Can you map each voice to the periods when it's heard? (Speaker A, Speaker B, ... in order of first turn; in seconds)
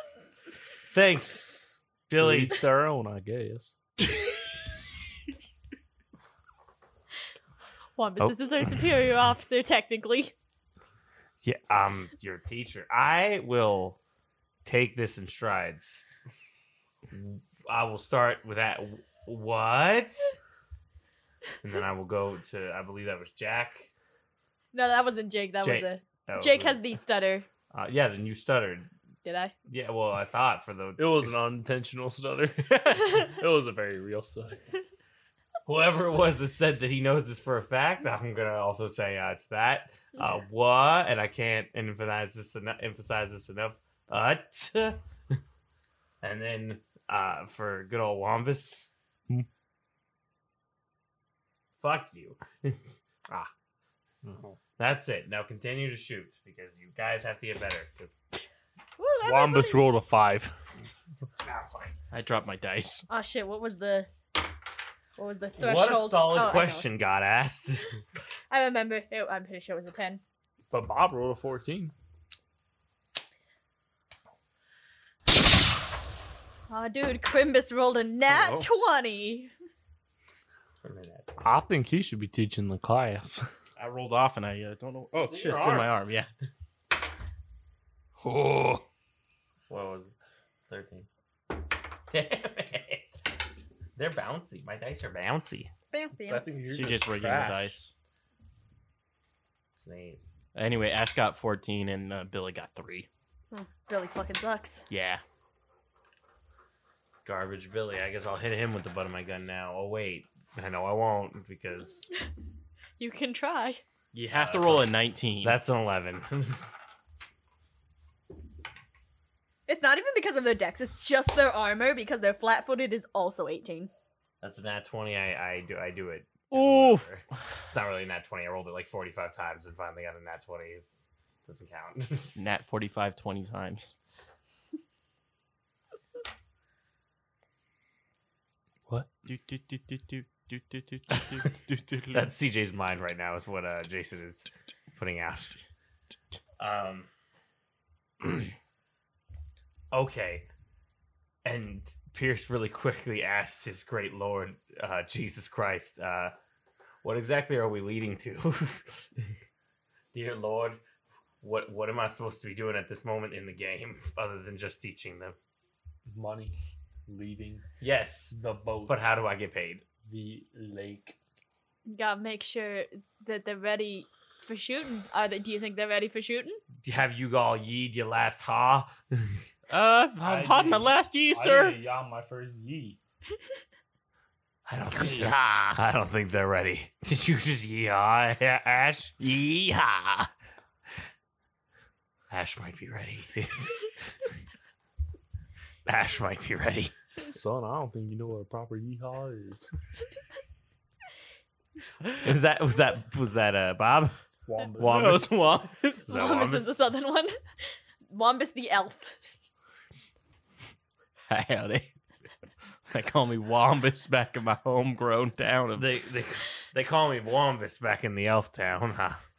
Speaker A: 0.9-1.5, 2.1-2.6, 11.4-14.0, 14.6-16.0, 17.1-20.3, 21.6-23.9, 25.6-26.8, 27.7-28.9, 29.7-31.4, 35.6-45.0, 46.2-48.9, 51.8-52.8, 54.8-58.2, 61.4-61.9, 65.6-68.0, 80.8-81.5, 85.3-85.9, 89.7-90.1, 90.7-91.1, 92.1-93.1, 94.0-95.7, 99.8-100.2, 107.2-112.1, 114.1-114.9, 115.4-116.6, 124.4-132.4, 142.1-145.6, 146.6-147.1, 149.9-150.5, 151.4-156.3, 157.0-159.3, 160.1-160.8, 161.4-165.4, 167.8-168.3, 168.9-169.8, 176.8-179.4, 184.7-189.1, 192.3-193.9, 195.9-196.9, 202.2-204.2, 204.8-206.9, 215.8-219.2
Speaker B: 2.1-3.8, 31.0-34.6, 54.2-54.5, 59.2-60.5, 70.7-71.9, 81.4-83.5, 85.2-85.9, 88.2-88.8, 96.3-97.8, 166.1-166.6, 167.1-167.6, 168.3-169.2, 170.0-171.2, 180.2-183.0, 197.3-199.7, 204.5-205.3
Speaker C: 8.0-10.3, 24.7-27.5, 29.2-29.5, 59.0-59.9, 63.1-64.1, 65.2-66.9, 68.5-70.2, 76.7-79.5, 95.9-96.6, 103.5-104.9, 113.0-113.8, 119.7-123.9, 171.9-176.6, 206.1-209.3
Speaker D: 62.1-63.1, 78.3-78.7, 83.8-86.3, 96.7-97.9, 100.5-103.1, 104.9-105.2, 114.1-115.6, 126.5-127.1, 132.4-134.0, 139.2-142.3, 179.7-181.8, 185.0-185.8, 189.2-190.3, 204.8-206.1, 211.3-211.9, 212.9-215.9